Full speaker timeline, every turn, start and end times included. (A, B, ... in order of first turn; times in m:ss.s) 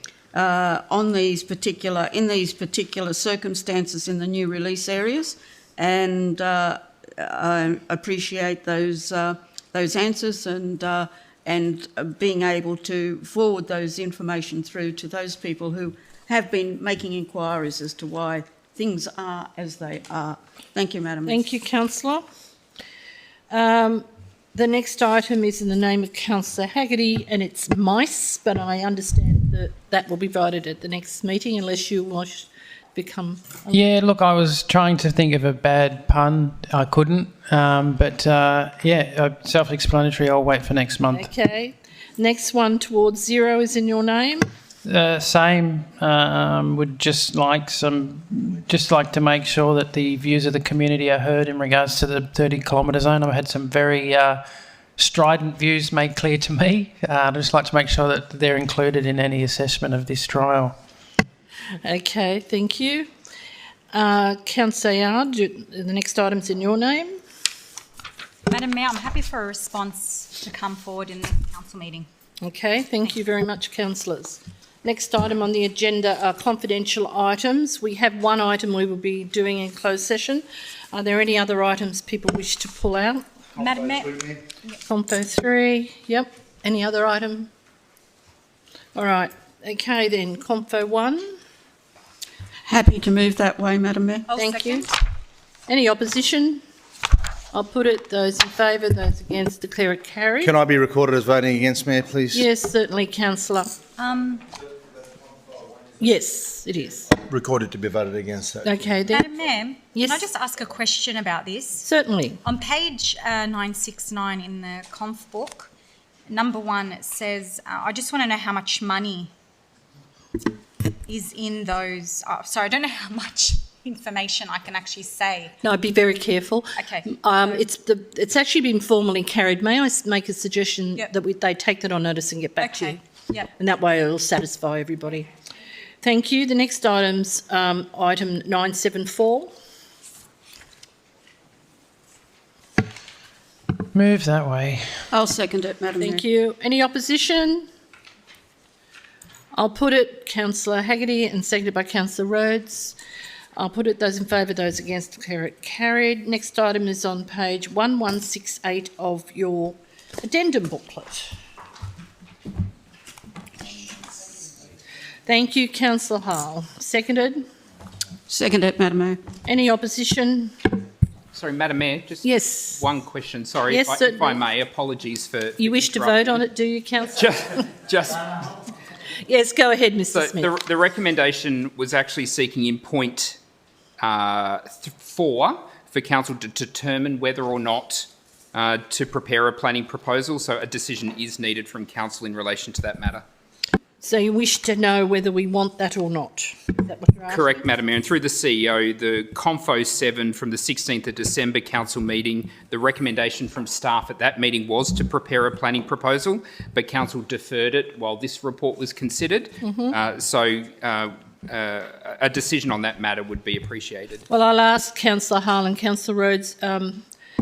0:00.3-0:21.4 A
0:21.3-0:22.2 B
0:23.5-0:33.9 B
0:33.7-0:41.3 C
0:41.1-0:44.4 B
0:44.8-0:54.4 C
0:55.0-1:00.7 C
1:01.8-1:03.1 B
1:03.9-1:07.2 B
1:08.5-1:12.1 D
1:12.4-1:23.2 B
1:23.6-1:24.7 D
1:24.9-1:27.5 B
1:29.0-1:31.2 B
1:32.7-1:34.3 A
1:34.3-1:34.9 D
1:34.4-1:34.9 B
1:35.7-1:36.6 B
1:37.5-1:40.5 B
1:40.4-1:42.4 E
1:42.3-1:43.8 B
1:44.0-1:44.4 D
1:46.0-1:47.2 B
1:47.2-1:48.9 E
1:48.6-1:49.3 B
1:49.1-1:51.9 D
1:49.9-1:50.3 B
1:51.8-1:52.4 B
1:52.4-1:55.7 D
1:56.3-1:59.3 D
2:01.1-2:05.5 D
2:05.6-2:15.3 B
2:06.8-2:07.6 D
2:12.6-2:13.5 D
2:16.0-2:19.5 B
2:23.9-2:24.8 C
2:25.1-2:26.2 A
2:26.0-2:27.7 B
2:29.5-2:33.0 B
2:33.6-2:41.3 B
2:45.3-2:47.4 B
2:48.3-2:49.2 A
2:49.4-2:50.5 B
2:51.3-2:56.4 F
2:52.2-2:52.8 B
2:53.7-2:54.4 B
2:55.6-2:57.6 B
2:57.1-2:58.5 F
2:59.2-3:00.5 B
3:00.1-3:03.4 F
3:04.0-3:13.2 F
3:14.0-3:17.7 B
3:17.3-3:34.2 F
3:29.6-3:30.0 B
3:34.3-3:37.0 B